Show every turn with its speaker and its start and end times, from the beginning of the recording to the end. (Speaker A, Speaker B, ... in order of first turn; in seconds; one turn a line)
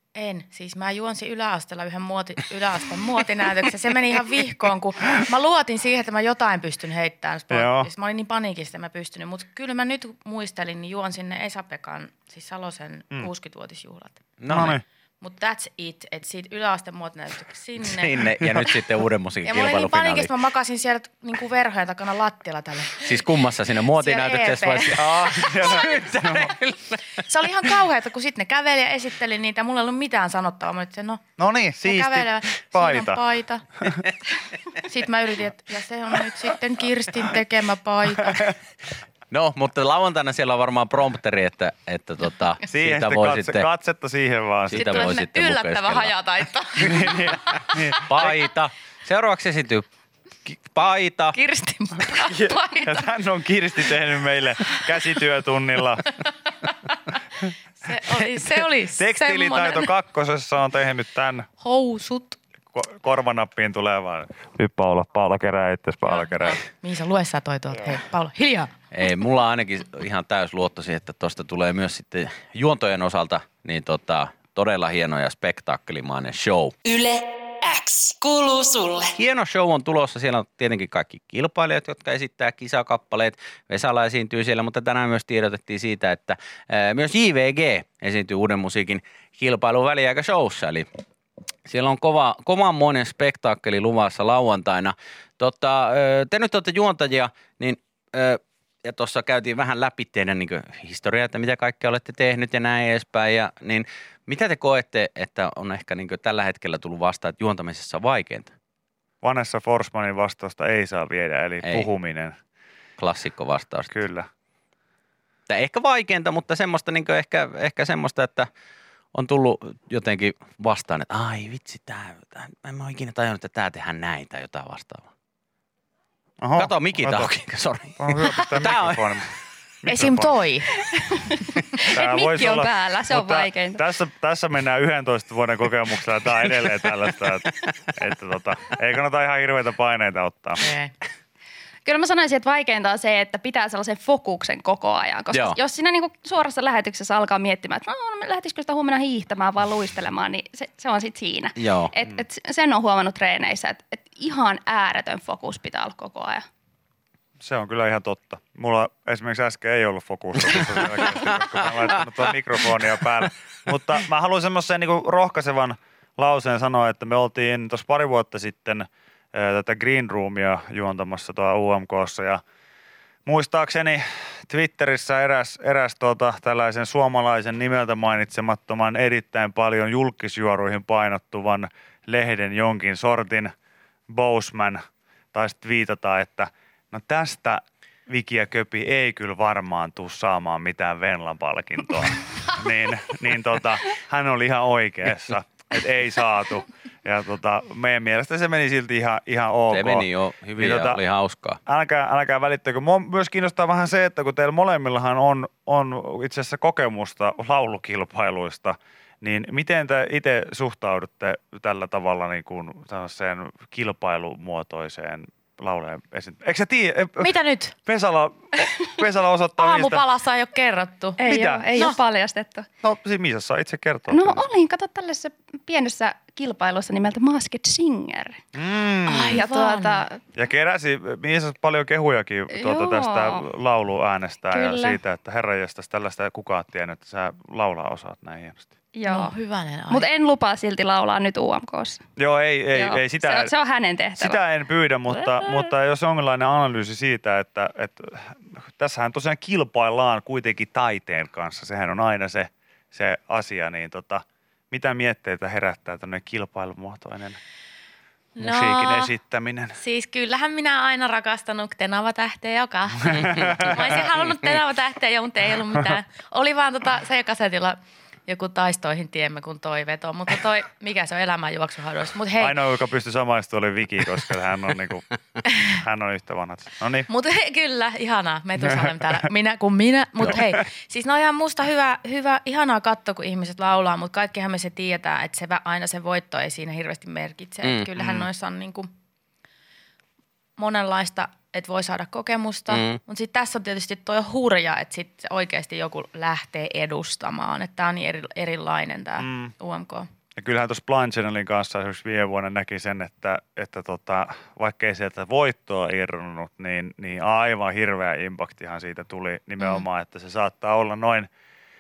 Speaker A: 0.1-18.8
Speaker B: 7.5-7.9
Speaker C: 14.4-14.8
Speaker B: 14.5-14.8
Speaker C: 17.8-20.4
Speaker A: 19.4-23.3
Speaker C: 23.0-27.2
Speaker A: 23.9-25.9
Speaker B: 25.0-26.5
Speaker A: 27.2-31.2
Speaker B: 31.4-33.2
Speaker A: 31.8-33.8
Speaker A: 34.7-38.6
Speaker C: 39.3-43.7
Speaker B: 42.7-45.1
Speaker C: 44.7-46.1
Speaker A: 44.7-48.2
Speaker B: 46.8-48.4
Speaker C: 48.1-49.9
Speaker C: 50.5-51.4
Speaker A: 51.3-53.1
Speaker B: 52.2-56.1
Speaker A: 56.6-57.0
Speaker A: 57.8-59.9
Speaker B: 58.2-61.5
Speaker A: 61.6-62.4
Speaker B: 62.7-66.6
Speaker A: 66.1-68.7
Speaker C: 68.9-76.8
Speaker D: 76.9-79.1
Speaker C: 79.1-90.9
Speaker C: 91.7-108.5
Speaker B: 109.2-112.4
Speaker C: 111.6-111.9
Speaker C: 113.0-113.9
Speaker B: 113.9-114.3
Speaker C: 115.5-118.5
Speaker C: 119.1-125.1
Speaker B: 126.4-127.3
Speaker C: 126.6-129.1
Speaker B: 128.0-129.3
Speaker B: 129.8-130.4
Speaker A: 129.9-130.7
Speaker E: 131.2-133.8
Speaker B: 131.9-140.6
Speaker A: 140.6-140.9
Speaker E: 141.8-156.4
Speaker C: 145.3-145.6
Speaker C: 151.6-151.9
Speaker B: 157.4-172.4
Speaker C: 160.4-162.8
Speaker B: 173.3-183.5
Speaker B: 184.1-184.8
Speaker B: 185.3-200.1
Speaker C: 199.7-201.6
Speaker B: 200.6-201.0
Speaker B: 201.7-217.3
Speaker A: 217.2-217.8
Speaker B: 217.8-220.0
Speaker A: 219.6-221.2
Speaker E: 221.2-222.7
Speaker B: 221.2-221.7
Speaker B: 222.8-224.4
Speaker E: 224.1-228.4
Speaker B: 228.6-229.4
Speaker A: 229.1-230.0
Speaker E: 229.3-230.2
Speaker B: 230.4-238.7
Speaker E: 232.5-233.4
Speaker E: 234.5-235.0
Speaker E: 238.9-239.3
Speaker A: 239.1-240.1
Speaker E: 239.9-242.0
Speaker B: 242.2-243.5
Speaker E: 242.7-244.4
Speaker B: 244.2-257.4
Speaker E: 245.3-245.7
Speaker A: 258.4-259.1
Speaker B: 258.4-259.8
Speaker A: 259.8-272.6
Speaker B: 263.2-264.0
Speaker B: 272.4-277.1
Speaker A: 277.1-288.9
Speaker C: 287.6-288.3
Speaker A: 290.6-300.1
Speaker C: 292.7-293.0
Speaker B: 299.2-299.5
Speaker B: 300.4-311.3